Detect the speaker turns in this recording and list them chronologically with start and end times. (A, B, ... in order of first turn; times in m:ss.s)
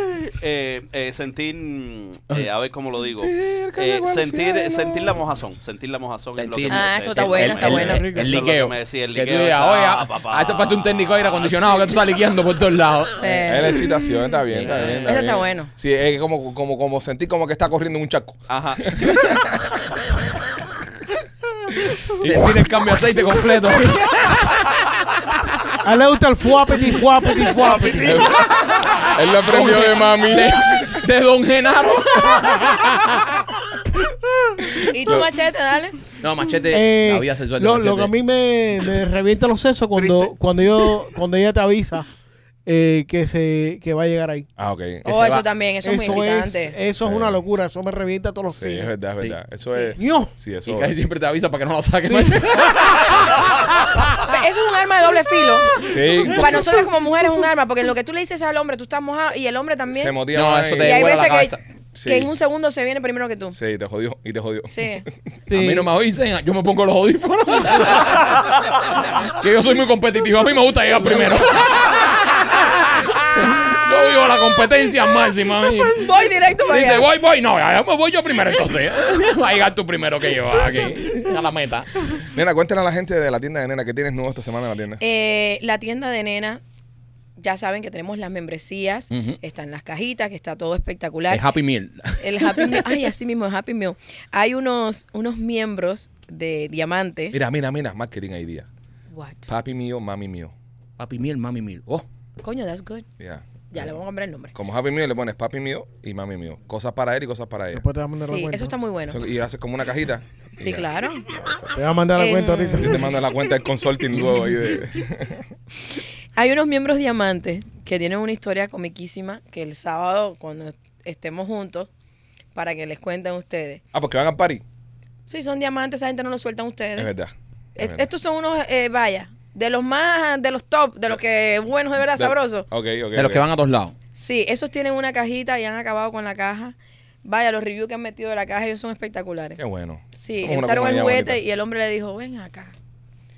0:00.3-0:11.9 A
0:03.2-0:05.2 B
0:06.4-0:13.4 C
0:06.7-0:08.1 D
0:07.7-0:08.5 E
0:13.2-0:14.0 D
0:13.4-0:20.1 B
0:14.5-0:15.1 C
0:14.7-0:15.1 A
0:15.0-0:15.7 D
0:18.5-0:18.8 A
0:22.0-0:22.6 B
0:22.2-0:25.2 C
0:25.8-0:28.2 E
0:27.4-0:33.5 C
0:27.8-0:28.3 A
0:28.0-0:30.9 B
0:34.9-0:36.0 D
0:36.2-0:38.1 C
0:36.7-0:42.1 E
0:42.7-0:44.5 E
0:44.6-0:45.4 B
0:45.0-0:46.8 D
0:45.8-0:48.9 E
0:47.0-0:47.4 B
0:48.5-0:51.0 B
0:49.6-0:50.0 D
0:50.0-0:50.3 E
0:50.6-0:54.2 C
0:52.0-0:53.3 E
0:54.2-1:00.2 D
0:55.8-0:56.7 B
0:59.9-1:01.1 B
1:00.3-1:01.6 C
1:00.8-1:03.6 D
1:01.9-1:02.3 B
1:03.5-1:05.1 B
1:04.7-1:05.0 D
1:05.4-1:05.9 E
1:05.6-1:16.1 C
1:15.9-1:17.1 D
1:16.7-1:22.1 C
1:22.3-1:25.0 B
1:25.0-1:26.6 D
1:27.4-1:31.4 D
1:29.1-1:29.4 C
1:31.3-1:33.1 C
1:32.2-1:37.4 D
1:37.3-1:38.7 B
1:39.1-1:39.5 D
1:39.5-1:40.5 B
1:41.0-1:42.0 C
1:42.4-1:43.1 D
1:43.2-1:44.0 B
1:43.7-1:44.5 D
1:44.5-1:47.8 B
1:47.7-1:48.8 E
1:48.2-1:49.2 D
1:49.1-1:51.8 B
1:50.6-1:51.3 D
1:51.7-1:53.2 E
1:52.2-1:53.1 D
1:52.8-1:55.4 B
1:56.4-2:01.9 D
2:02.6-2:03.8 D
2:03.9-2:04.6 B
2:05.3-2:07.1 D
2:07.0-2:08.1 B
2:07.8-2:12.7 D
2:12.2-2:13.4 B
2:13.2-2:14.0 C
2:14.2-2:19.6 D
2:19.6-2:21.4 B
2:20.1-2:22.7 D